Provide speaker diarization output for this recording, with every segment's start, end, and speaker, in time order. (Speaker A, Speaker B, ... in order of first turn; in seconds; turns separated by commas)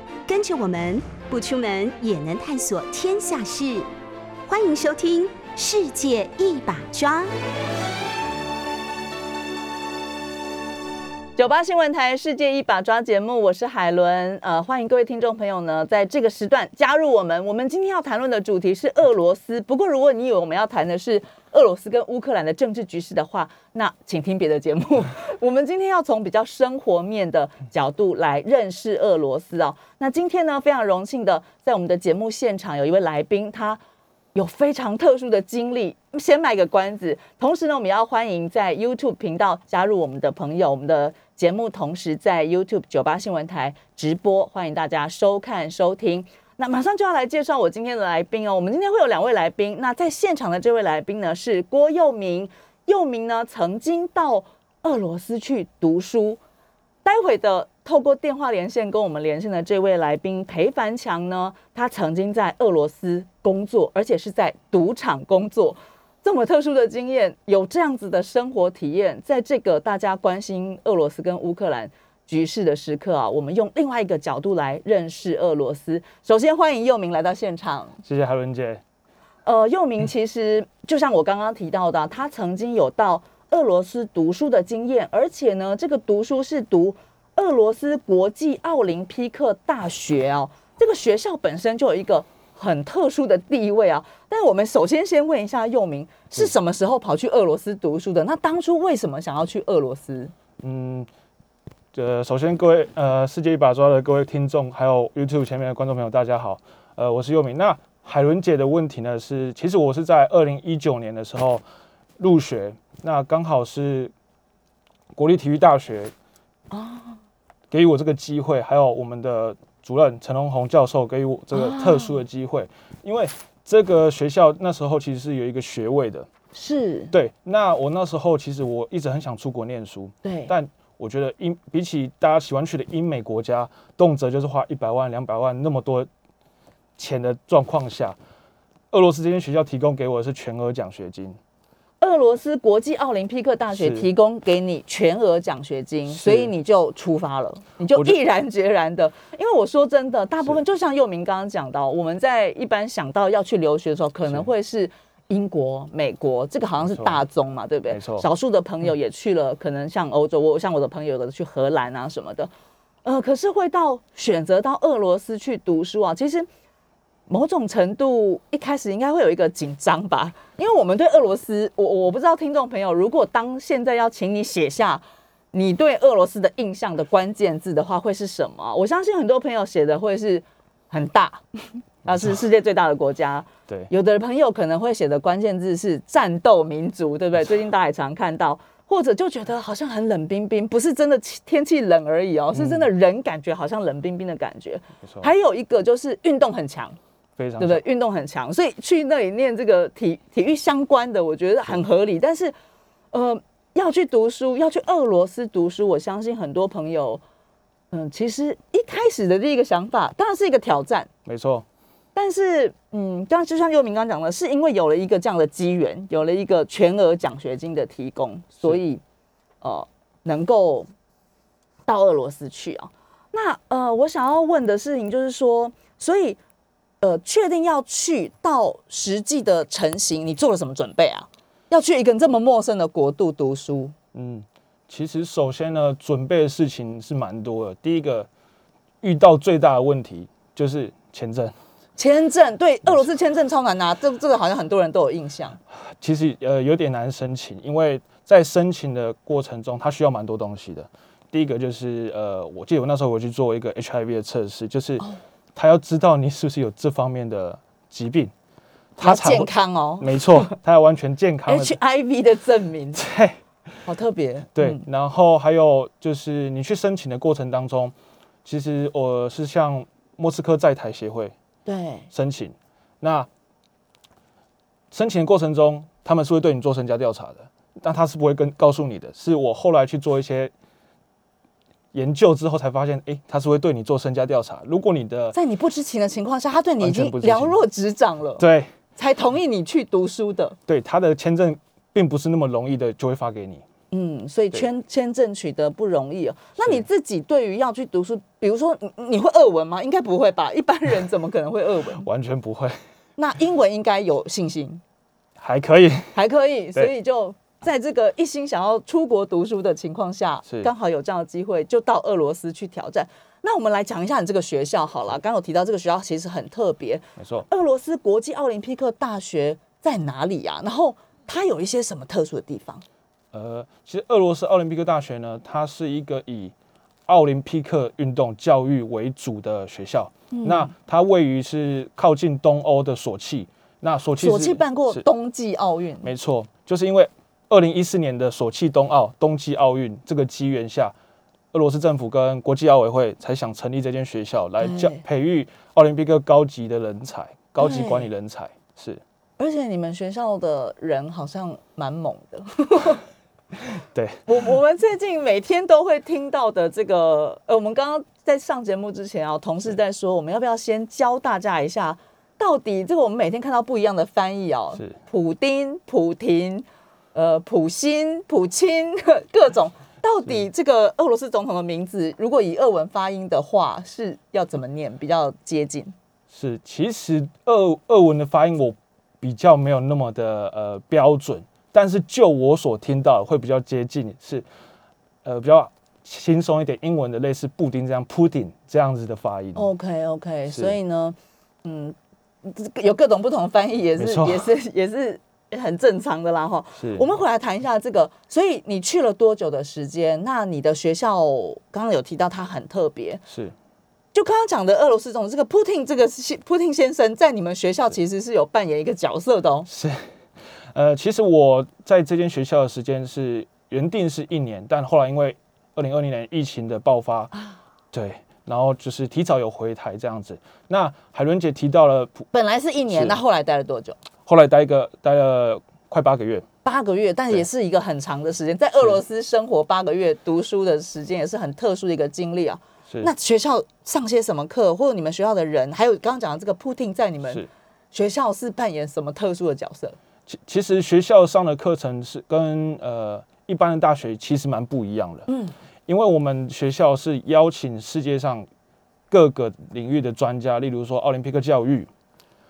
Speaker A: 0.3-3.9, Speaker A: 4.5-7.3, Speaker B: 11.4-33.8, Speaker B: 34.4-56.4, Speaker B: 57.0-78.0, Speaker C: 78.0-78.8, Speaker B: 79.5-100.3, Speaker C: 100.6-101.1, Speaker C: 101.9-111.6, Speaker C: 112.2-114.1, Speaker C: 115.1-116.1, Speaker B: 116.7-117.2, Speaker C: 117.7-126.3, Speaker B: 121.5-122.2, Speaker B: 126.5-127.1, Speaker C: 127.1-136.1, Speaker B: 130.2-130.6, Speaker C: 137.0-138.2, Speaker C: 138.9-141.4, Speaker B: 142.0-162.5, Speaker C: 143.7-144.1, Speaker C: 146.1-146.5, Speaker C: 147.9-148.2, Speaker C: 156.8-157.2, Speaker C: 157.9-158.3, Speaker B: 163.0-166.5, Speaker B: 167.3-197.0, Speaker C: 182.1-182.4, Speaker C: 192.5-192.9, Speaker C: 195.0-195.3, Speaker C: 197.4-197.8, Speaker B: 197.6-202.6, Speaker B: 203.1-207.2, Speaker B: 207.9-211.1, Speaker C: 211.3-211.7, Speaker B: 212.2-219.0, Speaker B: 219.6-220.9, Speaker B: 221.9-226.4, Speaker B: 227.0-233.9, Speaker C: 234.1-238.3, Speaker C: 239.0-241.5, Speaker B: 242.0-245.6, Speaker C: 245.7-258.3, Speaker C: 259.0-261.8, Speaker B: 259.0-260.6, Speaker B: 261.5-263.0, Speaker C: 262.9-263.4, Speaker B: 263.9-264.8, Speaker C: 264.6-267.9, Speaker C: 268.4-271.3, Speaker B: 271.7-272.1, Speaker C: 272.1-273.3, Speaker C: 274.9-280.5, Speaker C: 281.9-285.4, Speaker B: 285.3-288.4, Speaker C: 286.8-287.6, Speaker C: 288.4-288.7, Speaker B: 288.9-290.6, Speaker C: 290.7-293.6, Speaker B: 293.9-302.1, Speaker C: 296.6-296.9, Speaker C: 302.0-302.8, Speaker B: 303.2-304.8, Speaker C: 305.4-306.2, Speaker B: 306.1-322.8, Speaker C: 310.5-310.7, Speaker C: 317.2-317.5, Speaker C: 323.3-326.5, Speaker C: 327.1-335.1, Speaker B: 330.3-330.7, Speaker B: 334.2-336.1, Speaker C: 336.0-340.9, Speaker C: 341.5-349.0, Speaker B: 344.6-345.0, Speaker B: 347.6-348.1, Speaker B: 349.4-353.0, Speaker C: 353.6-354.2, Speaker B: 354.3-375.9, Speaker C: 376.3-384.4, Speaker C: 385.2-389.7, Speaker B: 389.6-403.2, Speaker C: 390.5-390.8, Speaker C: 394.0-394.5, Speaker C: 396.8-397.1, Speaker C: 403.3-403.6, Speaker B: 404.1-409.7, Speaker C: 409.7-410.1, Speaker C: 410.7-417.3, Speaker B: 417.3-417.6, Speaker C: 417.9-422.3, Speaker B: 422.3-424.0, Speaker C: 422.9-423.2, Speaker C: 424.3-426.5, Speaker B: 426.6-440.0, Speaker C: 440.3-445.3, Speaker B: 445.3-445.5, Speaker C: 445.9-448.5, Speaker C: 449.1-451.9